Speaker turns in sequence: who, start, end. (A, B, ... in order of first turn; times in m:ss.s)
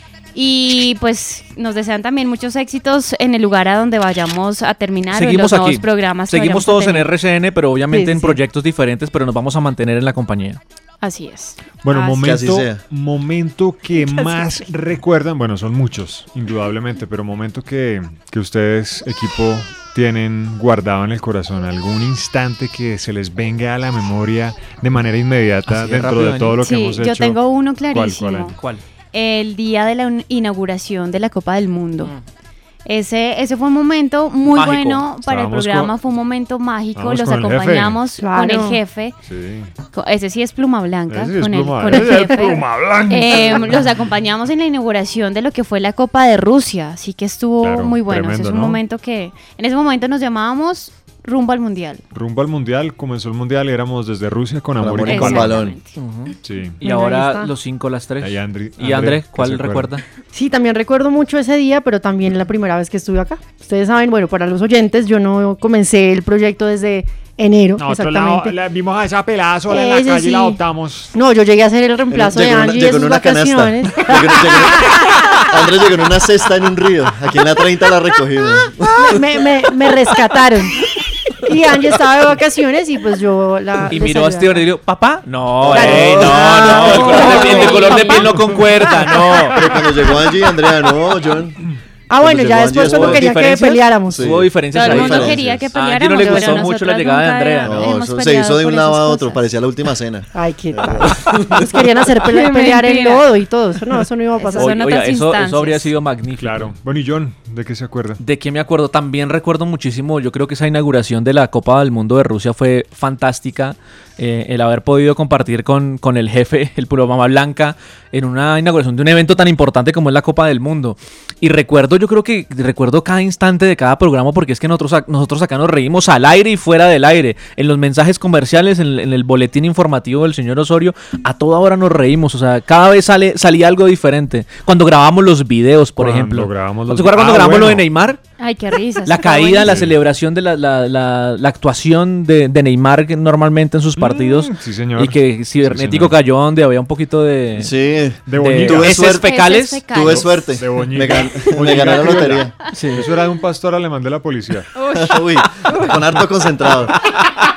0:00.3-0:07.1 A
0:05.1-0:10.6 B
0:07.9-0:08.4 C
0:11.0-0:12.3 A
0:11.8-0:28.6 D
0:12.0-0:12.8 E
0:14.1-0:14.4 A
0:25.7-0:26.6 B
0:26.6-0:28.6 A
0:29.1-0:32.1 A
0:32.8-0:39.2 A
0:34.5-0:35.1 B
0:35.2-0:36.0 D
0:36.9-0:38.0 D
0:38.2-0:38.8 C
0:39.3-0:39.7 D
0:39.9-0:52.0 A
0:41.1-0:43.9 D
0:41.9-0:42.6 C
0:47.6-0:48.8 D
0:52.1-0:55.6 D
0:54.8-0:55.8 E
0:55.0-0:56.0 A
0:56.0-1:00.0 B
0:56.4-0:56.8 D
0:56.8-0:57.5 C
0:58.2-0:59.9 D
1:00.3-1:08.6 C
1:07.8-1:11.1 D
1:09.7-1:10.6 C
1:11.1-1:15.2 C
1:12.1-1:19.2 E
1:19.0-1:20.8 C
1:21.4-1:24.6 C
1:23.9-1:29.7 B
1:25.7-1:29.2 C
1:25.8-1:26.3 E
1:27.1-1:28.4 A
1:29.5-1:31.6 E
1:32.1-1:34.2 C
1:32.2-1:33.4 E
1:32.8-1:37.9 B
1:34.1-1:35.7 E
1:34.7-1:39.4 A
1:37.6-1:41.9 E
1:40.3-1:44.8 C
1:42.3-1:43.3 A
1:44.4-1:45.9 A
1:44.6-1:46.7 B
1:46.4-1:48.2 D
1:48.2-2:18.2 B
2:16.0-2:17.8 D
2:18.4-2:19.8 A
2:19.0-2:27.7 B
2:19.7-2:19.9 D
2:24.0-2:26.2 D
2:27.6-2:29.3 E
2:28.3-2:29.1 D
2:28.4-2:30.2 B
2:29.0-2:30.6 A
2:29.9-2:32.5 E
2:30.6-2:34.7 D
2:32.7-2:33.1 B
2:34.8-2:35.9 A
2:34.9-2:37.0 E